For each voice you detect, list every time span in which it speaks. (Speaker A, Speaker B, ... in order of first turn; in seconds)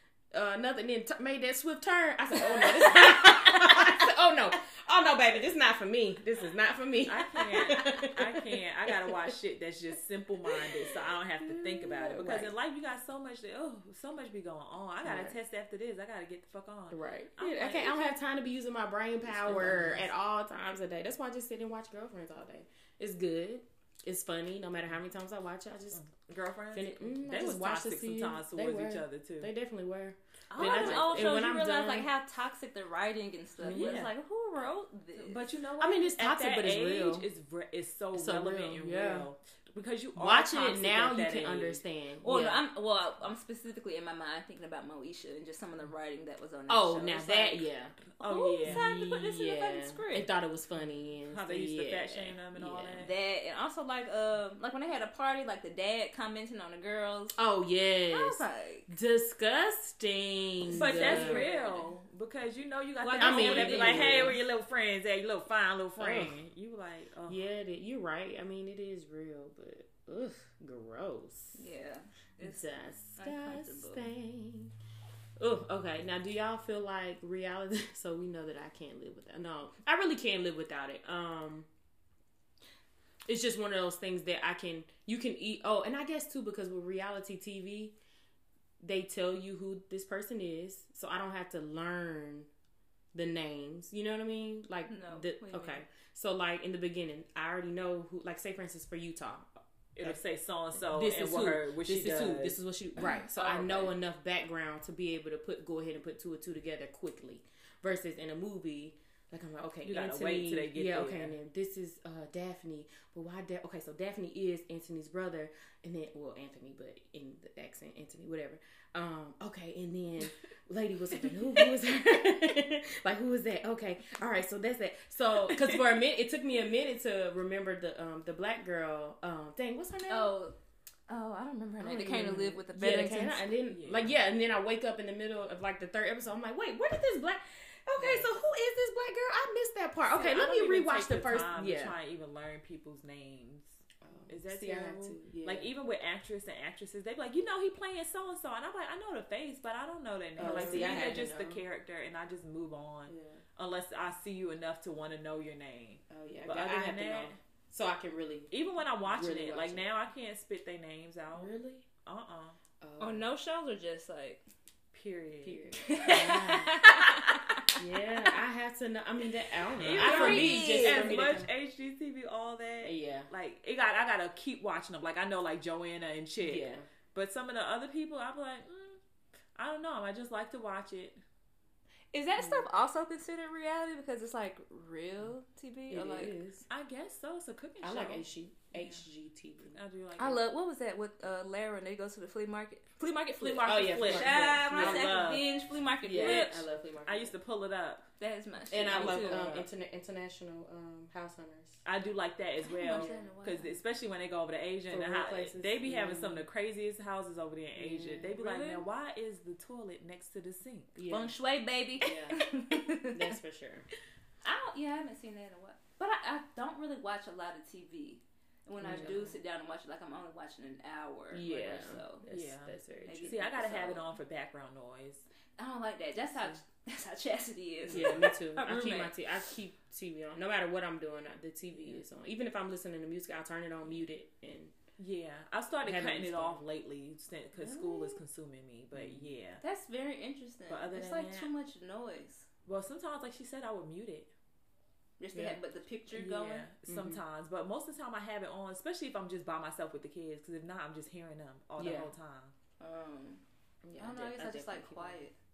Speaker A: 0.3-9.3, 10.5-12.5, 15.0-15.4, 16.9-26.0, 26.7-32.1, 33.6-34.1, 35.8-37.3, 38.1-39.3, 40.2-42.6, 46.7-48.0, 48.6-53.1, 57.4-61.5, 63.1-64.4, 66.0-66.4, 67.3-71.7, 72.4-74.7, 75.4-81.7, 83.3-88.0, 88.8-92.5, 93.1-99.5, 100.8-130.3, 131.8-142.0, 144.0-145.7, 150.4-151.6, 153.1-153.4, 156.1-158.5, 159.0-159.9, 161.3-161.9, 162.8-163.3, 165.4-166.9, 167.8-171.5, 172.8-173.3, 176.4-176.9, 182.4-182.7, 185.9-186.7, 187.8-189.8, 193.6-195.4, 196.0-197.3, 198.7-201.8, 202.9-203.3, 204.9-206.5, 207.8-208.4, 211.0-211.3, 212.0-212.5, 213.0-213.9, 218.8-219.4, 221.3-223.9, 227.9-234.7, 235.8-236.6, 238.9-239.3, 245.3-245.6, 246.8-247.2, 251.8-252.1, 253.8-255.3
Speaker B: 7.0-18.2, 19.2-20.1, 25.9-29.5, 30.5-31.4, 33.7-34.1, 35.2-41.8, 48.2-48.9, 51.3-53.1, 60.7-67.4, 100.0-102.6, 109.8-111.3, 125.5-125.8, 133.7-134.1, 140.1-157.4, 158.5-162.6, 164.9-165.9, 169.8-179.0, 179.6-181.2, 186.7-189.1, 189.7-190.4, 193.4-195.5, 196.2-198.1, 198.9-199.6, 201.8-211.0, 218.9-219.2, 222.3-225.3, 235.0-239.6, 240.7-241.5, 242.7-244.3, 246.2-252.5
Speaker C: 30.6-35.4, 42.2-47.6, 48.2-50.3, 53.0-57.4, 58.1-58.9, 60.7-61.9, 63.0-64.4, 71.6-74.1, 94.9-95.8, 103.0-103.9, 130.1-130.6, 131.1-133.5, 150.4-151.1, 163.0-164.5, 165.8-168.3, 169.9-171.3, 182.1-186.4, 190.2-196.7, 198.2-199.6, 202.6-203.8, 208.4-208.9, 211.1-213.3, 214.4-222.2, 223.1-224.0, 225.6-229.2, 237.6-238.2, 239.6-242.5, 245.2-246.7, 252.8-253.4, 254.0-255.3